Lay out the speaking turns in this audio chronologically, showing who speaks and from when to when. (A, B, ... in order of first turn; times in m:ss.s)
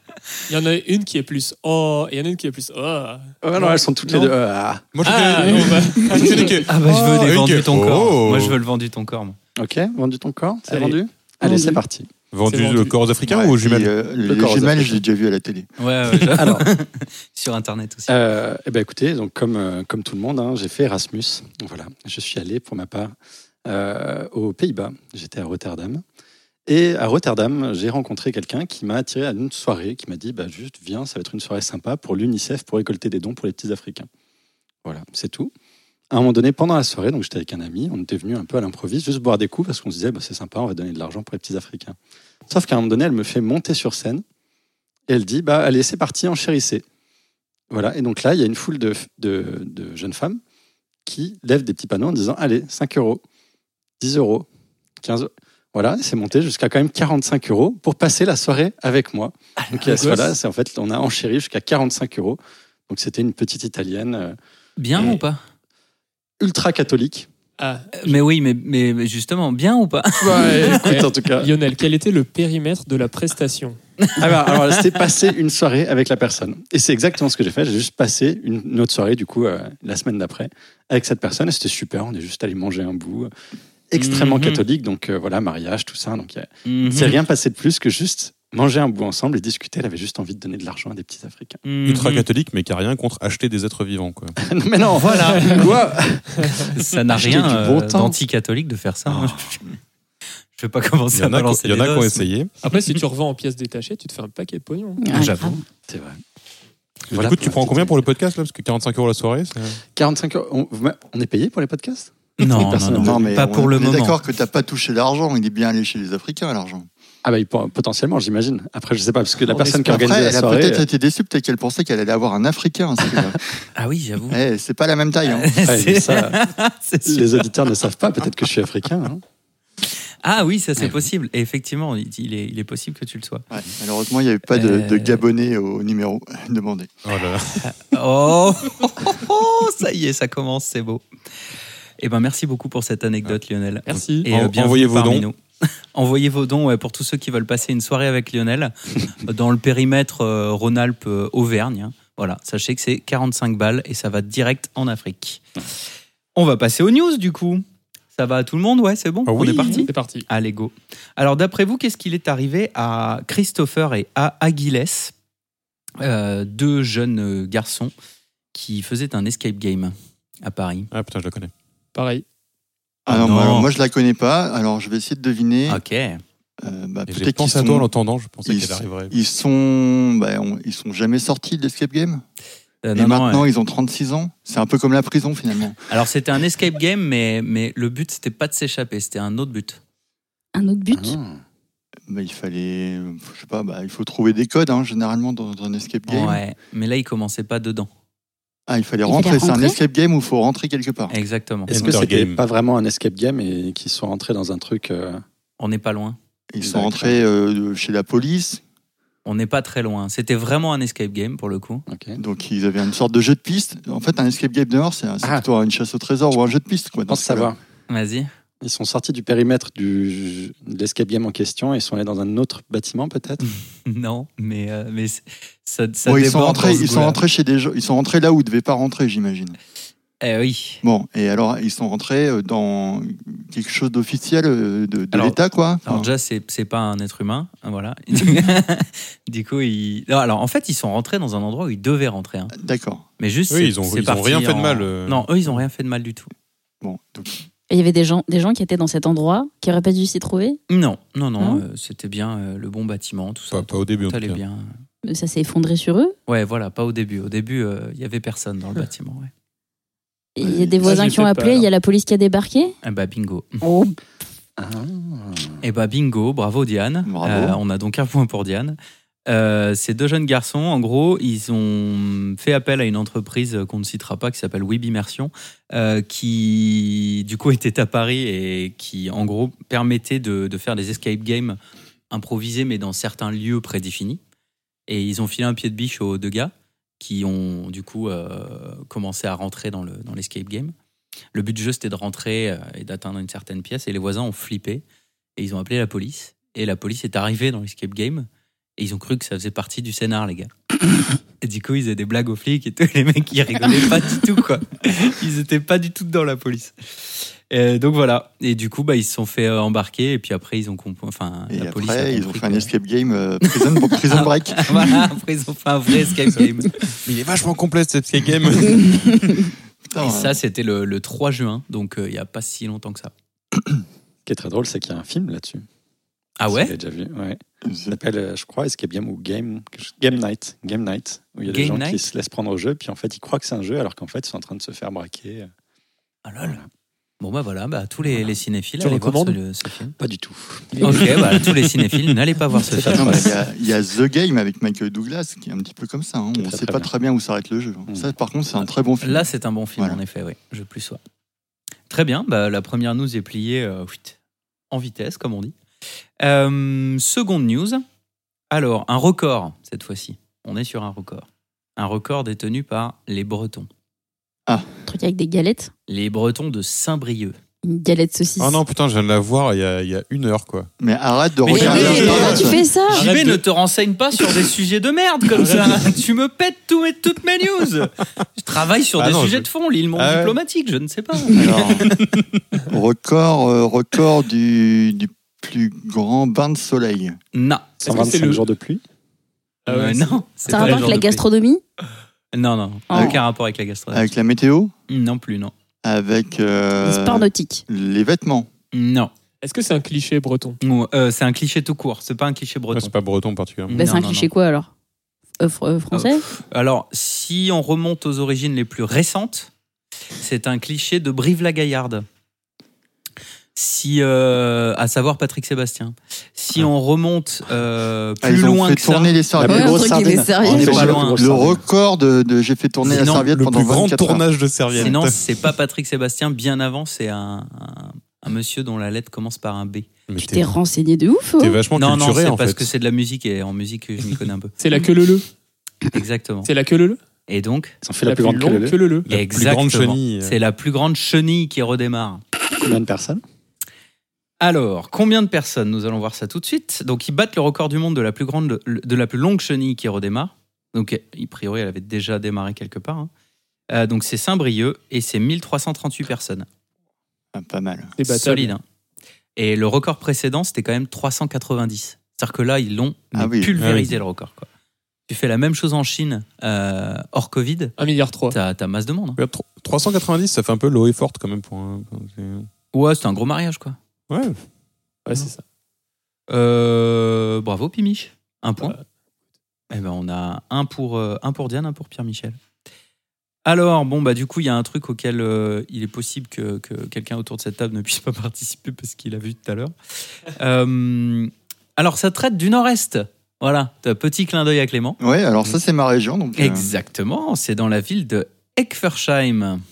0:00.5-0:04.3 A
0:03.4-0:04.9 B
0:04.9-0:08.6 C
0:05.0-0:06.6 A
0:06.6-0:09.4 D
0:09.6-0:12.1 B
0:10.7-0:11.0 A
0:11.4-0:11.8 E
0:12.3-0:13.9 C
0:12.5-0:13.0 A
0:13.2-0:15.7 F
0:14.2-0:15.0 B
0:15.8-0:18.1 D
0:16.2-0:16.7 B
0:18.1-0:23.1 B
0:23.6-0:26.0 B
0:26.7-0:34.1 B
0:34.8-0:35.5 B
0:36.1-0:42.0 B
0:42.5-0:44.2 B
0:45.1-0:46.8 B
0:47.7-0:50.4 B
0:51.0-0:53.2 B
0:54.0-0:54.5 B
0:55.0-1:04.4 B
0:59.6-0:59.8 D
0:59.9-1:00.3 A
1:04.8-1:05.4 D
1:06.4-1:07.3 B
1:07.6-1:07.9 A
1:08.0-1:10.8 D
1:10.2-1:11.5 B
1:10.3-1:13.8 A
1:14.0-1:14.5 D
1:14.2-1:23.3 B
1:23.9-1:31.6 B
1:24.0-1:24.6 D
1:26.6-1:27.2 D
1:31.6-1:32.3 D
1:31.8-1:34.4 C
1:34.4-1:38.1 B
1:34.9-1:35.7 D
1:35.3-1:35.6 A
1:36.4-1:36.7 A
1:36.7-1:39.6 D
1:39.1-1:39.6 B
1:40.5-1:42.3 D
1:41.1-1:42.5 C
1:42.6-1:45.0 A
1:45.0-1:45.6 E
1:45.1-1:45.6 D
1:45.9-1:46.2 B
1:47.1-1:49.8 C
1:47.1-1:48.0 B
1:49.9-1:53.3 B
1:52.4-1:54.2 D
1:52.9-1:56.9 F
1:57.2-2:00.8 B
1:59.4-2:03.4 F
2:03.8-2:04.4 D
2:04.3-2:05.5 F
2:05.2-2:07.5 D
2:05.6-2:06.4 B
2:07.0-2:09.2 B
2:10.2-2:13.4 D
2:10.8-2:11.1 B
2:13.5-2:16.9 F
2:14.5-2:15.2 D
2:17.0-2:17.7 C
2:17.6-2:21.0 D
2:22.0-2:25.4 D
2:23.8-2:24.3 A
2:24.2-2:25.2 C
2:25.9-2:35.5 D
2:36.3-2:37.6 D
2:38.1-2:45.1 D
2:39.2-2:39.8 C
2:39.4-2:40.2 A
2:46.0-2:47.9 D
2:48.5-2:50.9 D
2:50.9-2:51.5 C
2:51.9-2:52.2 A
2:53.0-2:55.8 F
2:53.1-2:53.7 D
2:55.7-2:56.2 D
2:56.6-2:57.9 F
2:57.1-2:59.1 C
2:58.4-3:02.2 F
3:02.8-3:03.5 D
3:02.9-3:05.8 F
3:05.9-3:09.8 D
3:10.5-3:11.2 E
3:10.9-3:11.4 B
3:12.1-3:16.4 F
3:16.1-3:17.9 D
3:18.7-3:21.2 F
3:19.1-3:19.8 E
3:21.1-3:21.7 D
3:21.7-3:25.2 B
3:21.7-3:22.4 C
3:25.6-3:26.2 D
3:26.5-3:28.6 F
3:26.6-3:27.2 B
3:29.2-3:31.8 D
3:31.9-3:32.2 B
3:32.2-3:37.5 F
3:37.1-3:37.6 B
3:37.9-3:38.3 D
3:38.6-3:43.4 B
3:43.4-3:47.2 D
3:46.0-3:49.6 F
3:50.2-3:50.8 D
3:50.8-3:56.1 F
3:55.1-4:02.5 D
4:02.5-4:03.0 F
4:03.2-4:06.3 D
4:03.5-4:05.3 C
4:06.8-4:07.4 F
4:07.7-4:10.6 E
4:10.7-4:14.7 D
4:13.5-4:14.4 C
4:15.0-4:16.1 E
4:16.3-4:19.3 D
4:20.4-4:22.7 E
4:20.4-4:20.9 F
4:20.8-4:21.7 A
4:22.8-4:23.6 D
4:23.6-4:23.9 E
4:24.6-4:25.6 B
4:25.6-4:41.6 D
4:27.0-4:27.6 F
4:42.1-4:44.2 D
4:44.9-4:50.7 D
4:51.3-4:54.8 D
4:55.4-5:00.5 D
5:01.4-5:06.7 D
5:07.5-5:12.7 D
5:11.5-5:15.1 F
5:13.5-5:16.8 D
5:17.0-5:19.4 C
5:18.8-5:19.4 E
5:19.8-5:20.4 F
5:20.0-5:23.1 D
5:23.6-5:23.8 F
5:24.2-5:25.6 B
5:26.4-5:26.7 D
5:26.4-5:35.5 B
5:27.6-5:28.0 F
5:31.4-5:32.0 D
5:36.2-5:36.6 D
5:37.2-5:39.9 D
5:38.8-5:39.4 A
5:40.0-5:41.6 B
5:40.8-5:41.0 A
5:40.8-5:43.3 D
5:42.5-5:43.4 B
5:42.9-5:50.0 F
5:46.4-5:46.9 B
5:49.0-5:51.0 D
5:51.9-5:54.2 D
5:54.7-5:55.5 D
5:56.2-5:57.8 D
5:58.5-6:03.7 D
6:04.8-6:05.7 E
6:05.9-6:07.4 D
6:07.6-6:08.6 E
6:08.4-6:10.7 C
6:10.8-6:12.6 F
6:11.4-6:22.0 D
6:11.5-6:13.1 E
6:11.9-6:12.2 A
6:12.1-6:12.4 C
6:12.9-6:13.4 A
6:15.3-6:15.9 A
6:19.0-6:20.4 C
6:21.3-6:21.9 F
6:22.7-6:27.2 F
6:27.3-6:28.1 D
6:27.8-6:28.4 A
6:27.8-6:28.8 B
6:29.6-6:31.0 A
6:29.7-6:31.2 D
6:30.5-6:31.6 E
6:32.3-6:34.1 D
6:32.9-6:33.2 E
6:32.9-6:33.2 F
6:33.9-6:34.7 F
6:34.9-6:35.5 D
6:35.8-6:38.5 F
6:36.8-6:37.6 E
6:38.7-6:39.1 D
6:39.4-6:40.6 A
6:40.6-6:42.9 D
6:42.7-6:43.9 C
6:43.7-6:44.3 D
6:43.7-6:44.7 E
6:45.4-6:46.2 E
6:45.9-6:49.5 D
6:50.2-6:52.0 D
6:53.5-6:59.2 D
6:58.2-6:59.9 F
6:59.4-7:01.6 B
6:59.4-7:01.0 E
7:00.4-7:01.2 D
7:00.5-7:04.2 F
7:02.8-7:03.3 D
7:03.0-7:05.2 C
7:04.8-7:09.9 D
7:10.1-7:10.5 C
7:10.2-7:11.6 E
7:11.4-7:12.7 C
7:11.8-7:14.5 D
7:14.6-7:15.3 A
7:15.9-7:16.5 D
7:16.4-7:17.0 A
7:17.3-7:17.8 D
7:17.8-7:18.9 B
7:18.0-7:19.0 A
7:19.0-7:20.4 C
7:19.1-7:22.2 D
7:22.6-7:23.2 B
7:24.4-7:33.1 D
7:33.7-7:36.5 D
7:37.3-7:37.9 F
7:38.0-7:38.5 A
7:38.1-7:38.6 D
7:39.4-7:44.5 D
7:43.1-7:43.5 F
7:43.6-7:44.0 C
7:45.1-7:47.7 D
7:47.8-7:48.4 A
7:48.3-7:49.2 D
7:49.2-7:52.5 C
7:52.7-7:53.8 D
7:54.1-7:54.4 C
7:55.0-7:55.4 A
7:56.3-7:58.7 D
7:59.7-8:02.4 D
8:03.4-8:09.7 D
8:10.3-8:15.0 D
8:15.0-8:16.8 F
8:16.4-8:19.6 D